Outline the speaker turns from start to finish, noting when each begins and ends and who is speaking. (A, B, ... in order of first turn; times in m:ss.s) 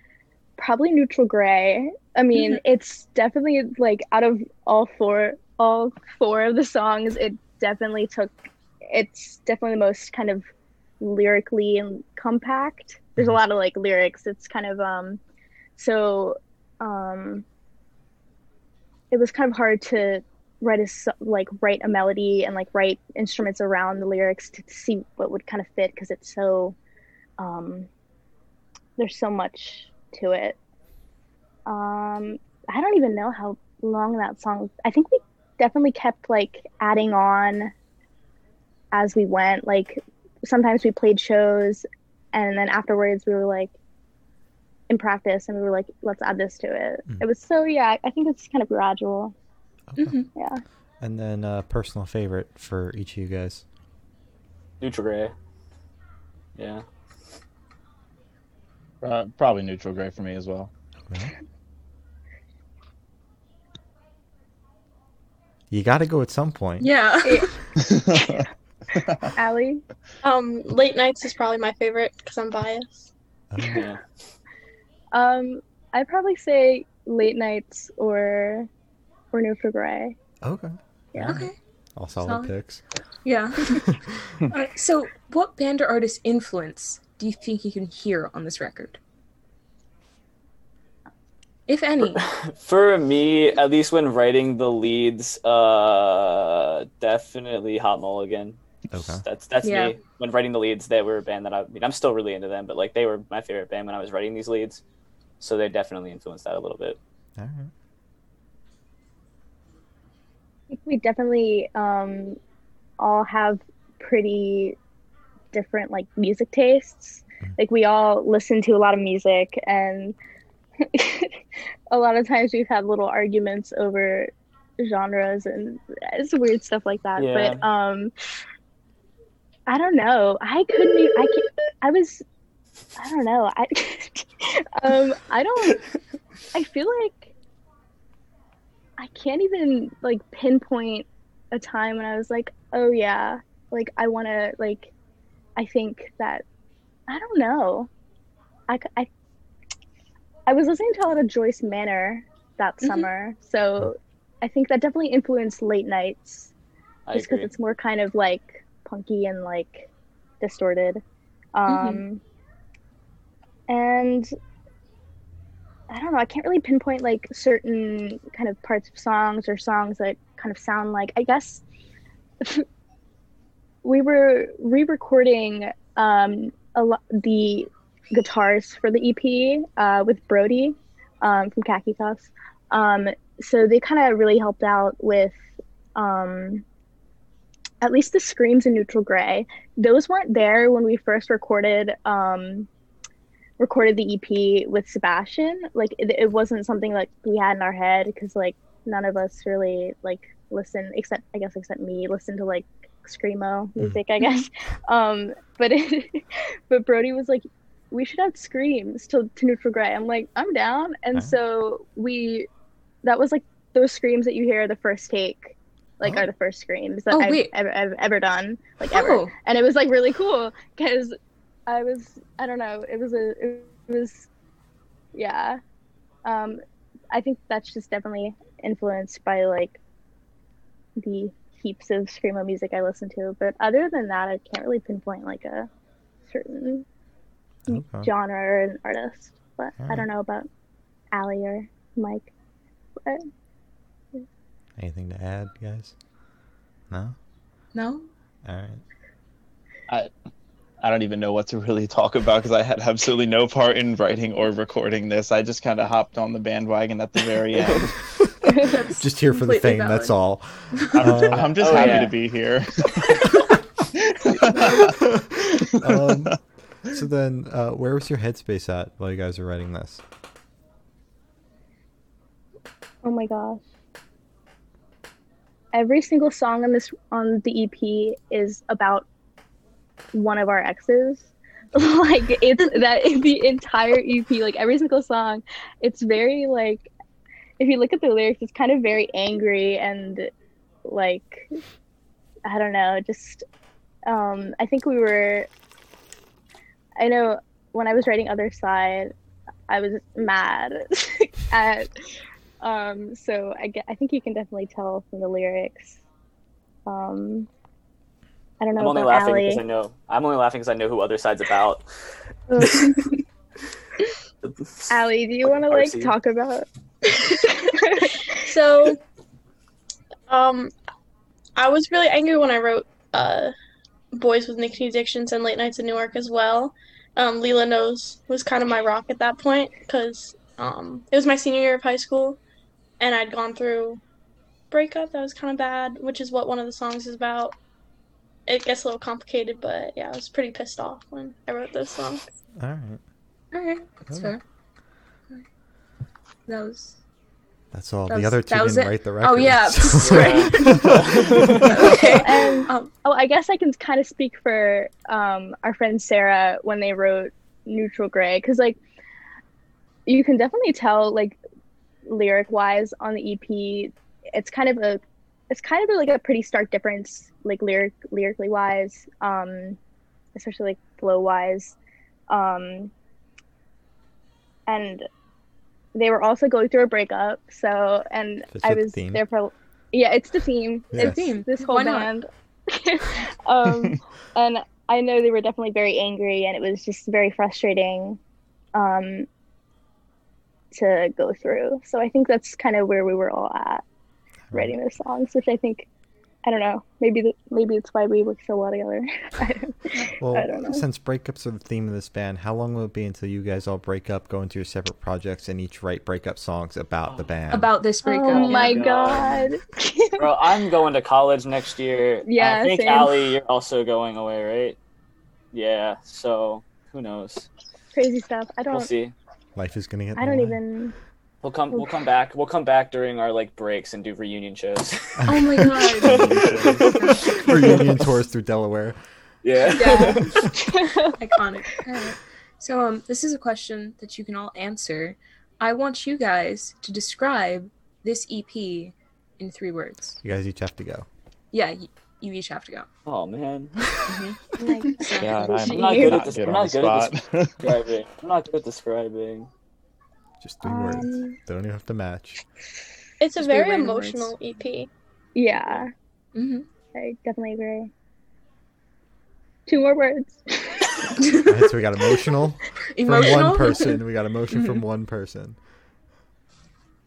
0:00.6-0:10.5 A
0:11.0-0:15.2 A
0:15.8-0:17.4 A
0:19.1-0:26.8 A
0:27.4-0:27.9 A
0:29.0-0:30.6 A
0:31.7-0:37.7 A
0:38.9-0:43.8 A
0:44.9-0:49.4 A
0:49.9-0:50.2 B
0:50.0-0:50.3 C
0:50.4-0:50.6 A
0:51.0-0:53.6 B
0:54.8-0:55.3 D
0:56.6-0:56.8 D
0:59.0-1:00.7 E
1:01.1-1:01.3 B
1:05.7-1:06.9 B
1:06.8-1:07.5 C
1:07.2-1:07.5 A
1:07.8-1:09.3 E
1:09.3-1:09.8 A
1:10.2-1:13.1 F
1:13.5-1:13.9 B
1:13.7-1:14.0 D
1:15.1-1:18.7 A
1:19.3-1:20.2 A
1:20.4-1:22.8 B
1:21.1-1:21.4 A
1:21.2-1:21.6 C
1:22.2-1:22.6 C
1:23.2-1:23.9 C
1:23.7-1:24.3 B
1:24.5-1:29.0 C
1:31.7-1:32.2 C
1:32.0-1:44.8 D
1:38.9-1:39.2 B
1:39.6-1:40.0 C
1:45.4-1:47.0 D
1:47.4-1:47.7 B
1:50.7-1:52.4 A
1:53.0-1:54.8 A
1:55.5-2:00.2 A
2:00.8-2:08.1 A
2:07.2-2:07.6 D
2:09.7-2:12.2 A
2:13.0-2:15.8 A
2:16.5-2:17.3 A
2:19.0-2:24.9 A
2:25.6-2:26.4 A
2:27.1-2:27.9 A
2:28.7-2:29.1 A
2:30.5-2:36.5 A
2:32.8-2:33.1 C
2:37.1-2:37.5 D
2:37.1-2:39.9 A
2:40.4-2:41.0 A
2:41.6-2:42.2 A
2:41.7-2:42.0 C
2:43.7-2:44.3 A
2:45.9-2:51.6 A
2:52.4-2:52.7 A
2:53.8-3:05.4 A
3:06.0-3:06.6 A
3:07.8-3:12.7 A
3:13.6-3:32.5 A
3:33.0-3:41.2 A
3:37.1-3:37.5 C
3:38.9-3:39.3 C
3:41.7-3:44.3 A
3:45.1-3:45.6 A
3:46.2-3:49.8 A
3:51.0-3:55.7 A
3:56.3-3:56.8 A
3:57.7-3:58.1 B
3:57.7-4:00.5 A
3:59.8-4:00.1 B
4:01.1-4:02.3 A
4:04.8-4:06.0 B
4:06.9-4:07.2 B
4:07.7-4:08.1 C
4:08.4-4:08.8 B
4:10.8-4:18.0 E
4:17.6-4:17.9 D
4:18.5-4:20.1 C
4:19.0-4:21.8 B
4:20.7-4:21.0 C
4:20.9-4:23.4 E
4:21.3-4:22.2 D
4:24.0-4:25.0 E
4:24.9-4:30.0 B
4:25.6-4:26.3 E
4:33.0-4:33.6 A
4:35.7-4:39.1 A
4:40.1-4:46.9 A
4:47.6-4:50.3 A
4:50.8-4:51.6 A
4:52.5-4:53.4 A
4:54.1-4:55.5 A
4:57.0-4:59.1 A
4:59.7-5:01.9 A
5:02.6-5:06.0 A
5:06.9-5:07.5 A
5:08.6-5:09.6 A
5:08.8-5:11.8 D
5:12.5-5:13.2 A
5:12.6-5:13.0 D
5:14.9-5:18.3 A
5:15.4-5:16.1 D
5:18.3-5:19.0 F
5:20.3-5:20.7 F
5:21.6-5:23.5 F
5:24.1-5:32.4 F
5:33.0-5:34.0 F
5:34.7-5:37.6 F
5:38.5-5:42.3 F
5:42.6-5:43.0 B
5:43.5-5:44.4 C
5:44.1-5:44.4 B
5:46.5-5:47.0 C
5:47.7-5:51.5 B
5:48.1-5:52.9 C
5:50.0-5:51.9 D
5:52.1-5:58.8 A
6:00.1-6:01.4 A
6:02.1-6:09.8 A
6:10.4-6:11.8 A
6:12.3-6:12.9 A
6:14.7-6:15.1 A
6:15.9-6:28.2 A
6:18.5-6:19.2 B
6:20.9-6:21.3 B
6:21.0-6:22.1 C
6:28.8-6:29.3 A
6:30.7-6:33.8 A
6:34.5-6:34.8 B
6:34.5-6:35.9 A
6:36.4-6:40.8 A
6:40.2-6:47.8 B
6:47.5-6:48.9 C
6:48.0-6:50.4 A
6:48.3-6:49.5 D
6:50.2-6:54.8 D
6:52.2-6:53.4 A
6:55.5-6:57.5 D
6:57.9-6:58.9 A
6:58.7-6:59.1 D
6:59.6-7:00.6 B
7:00.2-7:01.0 A
7:01.4-7:07.2 D
7:05.2-7:09.0 B
7:05.3-7:07.3 C
7:06.5-7:06.8 E
7:09.4-7:10.5 D
7:09.8-7:10.3 C
7:09.8-7:11.2 A
7:11.2-7:20.2 C
7:20.2-7:21.1 B
7:21.5-7:22.9 C
7:23.1-7:24.2 D
7:24.0-7:24.4 C
7:24.6-7:26.3 A
7:24.9-7:26.0 C
7:25.2-7:27.7 E
7:25.7-7:29.5 D
7:30.4-7:32.4 B
7:30.6-7:31.4 A
7:33.2-7:34.9 F
7:33.4-7:34.3 C
7:35.4-7:35.9 A
7:36.4-7:36.7 C
7:36.9-7:37.9 A
7:39.7-7:41.2 A
7:41.4-7:45.6 B
7:43.0-7:44.8 C